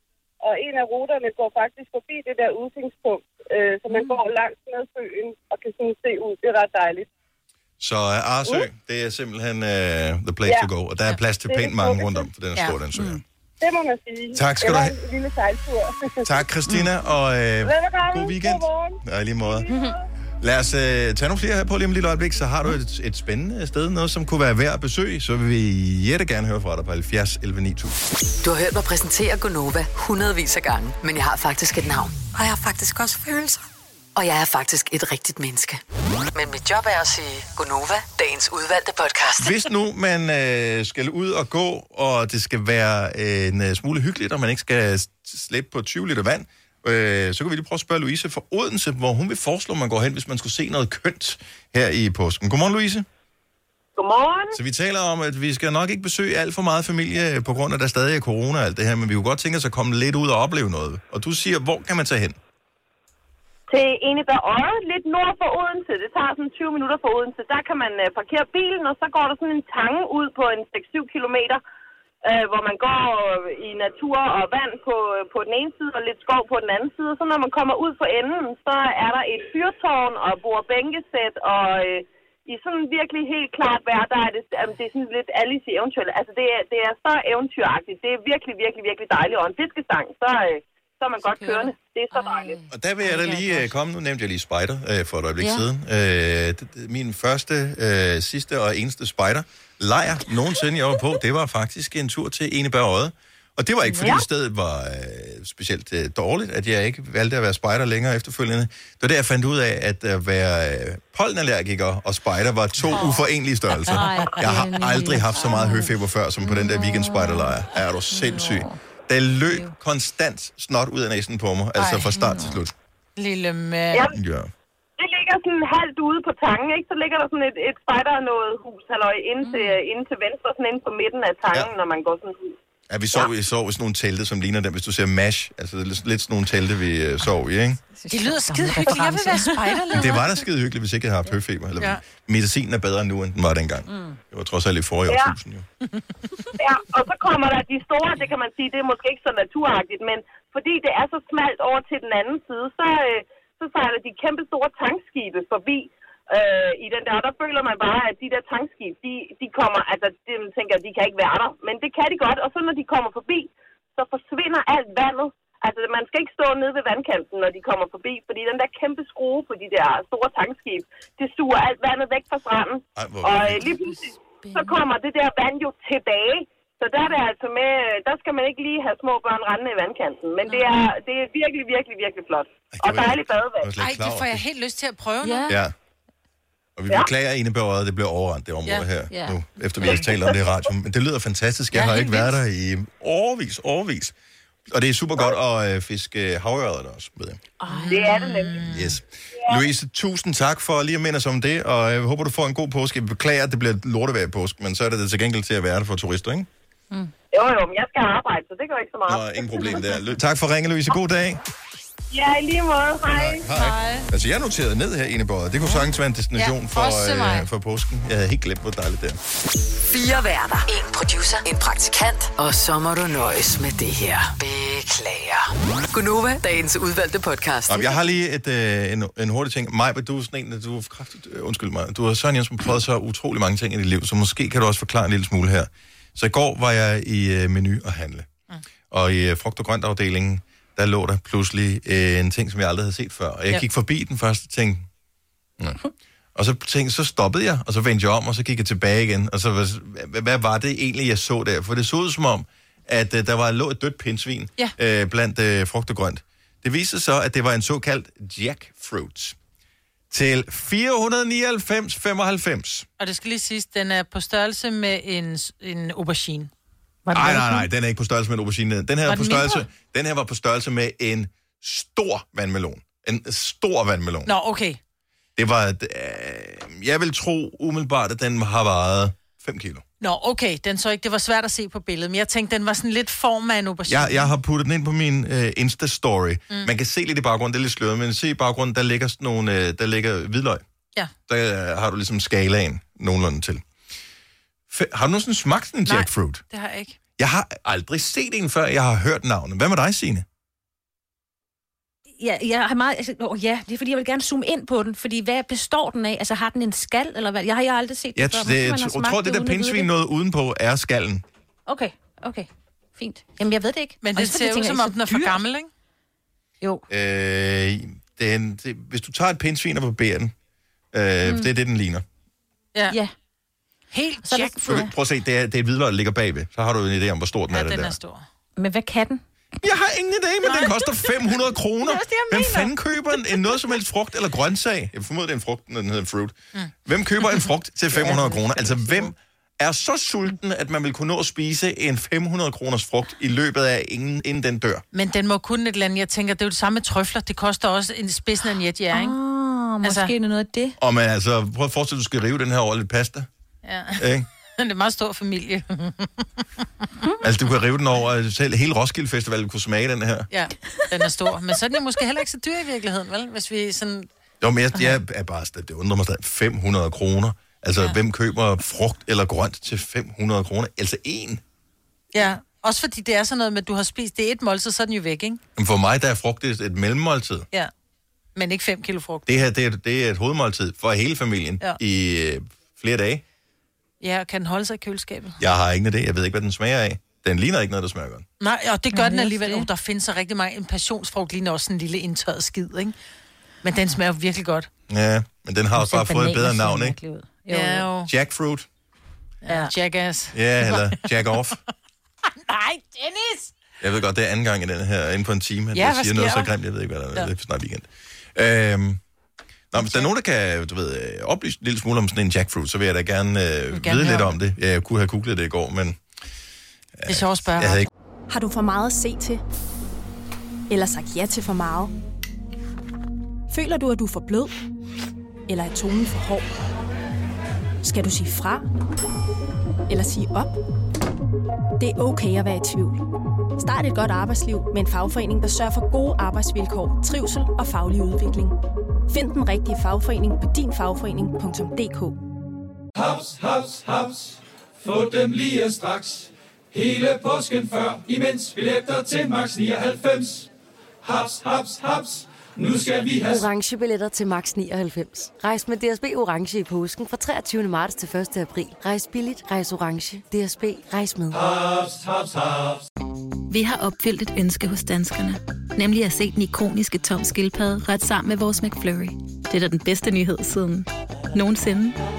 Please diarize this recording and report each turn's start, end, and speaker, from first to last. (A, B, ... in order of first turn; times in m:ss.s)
0:00.4-0:07.1 A
0:03.9-0:04.2 B
0:07.8-0:13.2 C
0:11.4-0:12.3 A
0:12.9-0:13.2 B
0:13.6-0:16.3 A
0:14.3-0:15.0 C
0:16.2-0:19.7 C
0:17.6-0:20.0 A
0:19.7-0:20.0 B
0:20.4-0:28.0 C
0:28.4-0:33.6 D
0:34.2-0:35.8 D
0:36.3-0:39.6 D
0:39.4-0:53.1 C
0:54.0-0:54.6 E
0:54.5-1:02.4 C
1:03.7-1:11.6 E
1:12.2-1:32.6 E
1:31.3-1:33.7 B
1:32.7-2:02.7 C
1:35.4-1:35.7 B
1:43.9-1:44.2 B
1:52.9-1:53.3 F
1:53.9-1:57.5 B
1:58.1-1:58.8 B
1:59.5-1:59.7 B
2:01.8-2:02.3 F
2:02.2-2:02.6 B
2:03.2-2:04.1 F
2:04.1-2:04.5 C
2:05.0-2:12.6 E
2:09.4-2:09.8 B
2:12.9-2:17.8 C
2:18.0-2:19.6 B
2:18.1-2:20.3 F
2:19.9-2:25.7 C
2:23.9-2:24.2 B
2:25.1-2:25.4 E
2:26.6-3:03.7 E
2:53.0-2:53.7 C
2:53.7-2:54.8 B
3:00.4-3:00.7 B
3:02.7-3:04.4 C
3:03.8-3:05.5 F
3:05.2-3:05.6 B
3:05.5-3:05.7 C
3:06.8-3:14.2 C
3:09.1-3:09.4 B
3:09.8-3:10.4 E
3:11.7-3:12.4 F
3:14.7-3:17.4 C
3:17.6-3:18.3 B
3:17.7-3:19.0 F
3:17.9-3:18.6 E
3:18.7-3:26.5 C
3:27.3-3:29.8 E
3:29.1-3:31.4 C
3:32.1-3:33.4 E
3:33.1-3:39.2 C
3:33.5-3:34.0 F
3:36.4-3:37.5 F
3:39.8-3:48.1 D
3:47.7-3:58.3 C
3:58.9-4:04.9 C
4:06.4-4:19.4 C
4:20.1-4:22.9 C
4:23.0-4:26.5 F
4:27.1-4:27.7 B
4:27.1-4:34.3 C
4:29.1-4:29.7 F
4:34.3-4:34.8 F
4:35.4-4:39.8 C
4:40.0-4:44.3 F
4:43.9-4:50.6 C
4:51.3-4:53.6 C
4:54.7-4:56.4 C
4:55.9-4:57.0 F
4:57.2-5:00.2 C
5:02.2-5:09.9 B
5:08.2-5:11.2 C
5:11.7-5:15.4 B
5:14.0-5:15.7 F
5:16.9-5:20.3 C
5:20.9-5:22.0 C
5:21.2-5:21.5 B
5:23.9-5:24.9 F
5:24.2-5:24.9 B
5:24.6-5:28.0 C
5:27.5-5:28.2 F
5:28.6-5:29.2 B
5:29.6-5:44.8 C
5:30.4-5:32.7 F
5:33.3-5:33.6 F
5:37.2-5:39.1 F
5:44.9-5:49.2 F
5:48.9-5:50.8 B
5:49.8-5:50.1 F
5:50.8-5:53.3 C
5:53.6-5:54.1 F
5:54.0-5:54.3 C
5:54.6-5:56.4 F
5:57.2-6:00.3 C
6:00.3-6:04.1 F
6:04.4-6:11.4 C
6:12.1-6:15.4 F
6:15.6-6:17.5 C
6:18.4-6:19.4 F
6:19.3-6:23.2 C
6:24.0-6:25.4 F
6:25.4-6:28.3 C
6:28.4-6:32.9 F
6:28.9-6:29.7 B
6:33.6-6:34.7 F
6:34.9-6:37.0 C
6:35.8-6:37.9 B
6:37.5-6:38.1 F
6:38.1-6:38.7 C
6:39.4-6:41.4 F
6:39.5-6:39.7 B
6:40.3-6:41.6 C
6:42.5-6:43.5 F
6:43.8-6:49.0 C
6:45.7-6:46.6 F
6:49.7-6:56.0 C
6:49.7-6:50.1 F
6:53.7-6:54.4 F
6:57.0-6:57.9 C
6:57.1-6:57.9 F
6:58.3-6:59.4 G
7:00.7-7:01.9 G
7:03.5-7:04.6 G
7:05.5-7:06.5 G
7:07.8-7:08.7 G
7:09.9-7:10.6 G
7:11.8-7:13.0 G
7:13.6-7:18.6 G
7:19.1-7:22.2 G
7:23.0-7:30.5 H
7:31.0-7:33.5 H
7:33.3-7:41.4 I
7:41.3-7:42.8 H
7:43.5-7:52.0 J